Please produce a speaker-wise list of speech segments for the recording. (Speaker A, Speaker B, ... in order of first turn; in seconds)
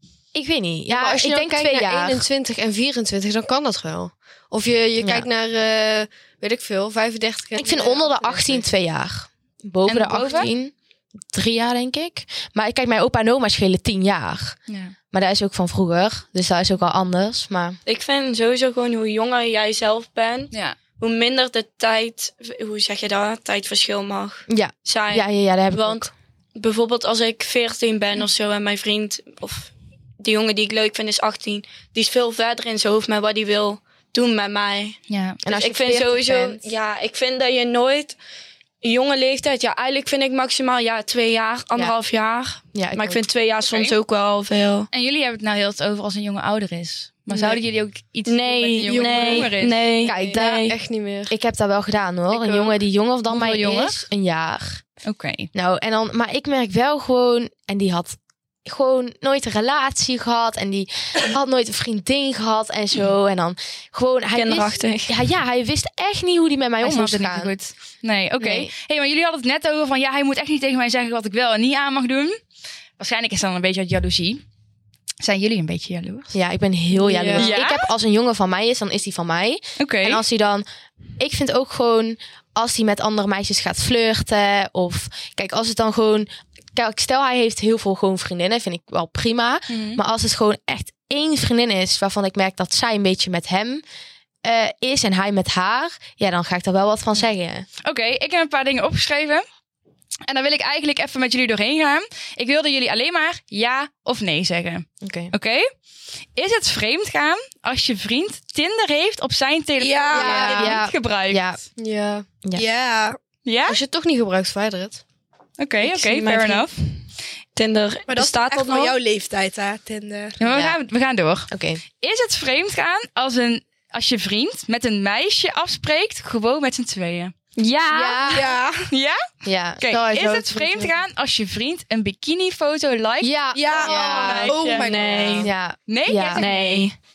Speaker A: 0.3-2.3, 5.0-5.3, 7.6-10.7, 11.3-14.6, 15.1-17.8, 24.5-26.1, 35.5-36.6, 42.7-43.2, 50.0-50.7, 51.3-54.8, 55.5-67.5, 68.4-68.7, 76.3-80.7, 81.2-93.8, 94.4-97.7, 105.0-105.3, 110.1-111.6, 120.4-120.8, 121.5-121.8, 127.9-128.5, 129.4-130.9, 133.2-134.6, 135.4-136.5
Speaker B: 0.9-8.7, 49.1-49.3, 50.0-51.3, 52.3-52.7, 77.1-77.5, 111.8-112.3, 113.7-115.0
Speaker C: 9.9-10.5, 14.7-14.9, 20.5-20.8, 35.1-35.4, 43.7-43.9, 44.9-49.9, 53.3-54.0, 55.0-55.5, 66.8-72.4, 73.0-74.4, 75.2-76.3, 77.4-77.9, 79.8-80.2, 89.7-90.0, 97.8-99.5, 100.3-105.7, 106.4-111.6, 113.5-113.8, 115.6-116.8, 120.4-121.5, 122.0-127.3, 128.9-129.3, 129.8-134.9, 135.9-136.8
Speaker D: 17.9-35.0, 35.5-38.2, 38.8-44.9, 47.3-47.6, 48.3-50.8, 64.3-65.2, 115.8-116.8, 117.5-119.0, 127.6-128.4, 134.3-135.5, 136.4-136.9
Speaker E: 109.8-110.8, 112.5-113.2, 118.1-120.4, 128.3-128.9, 133.6-135.5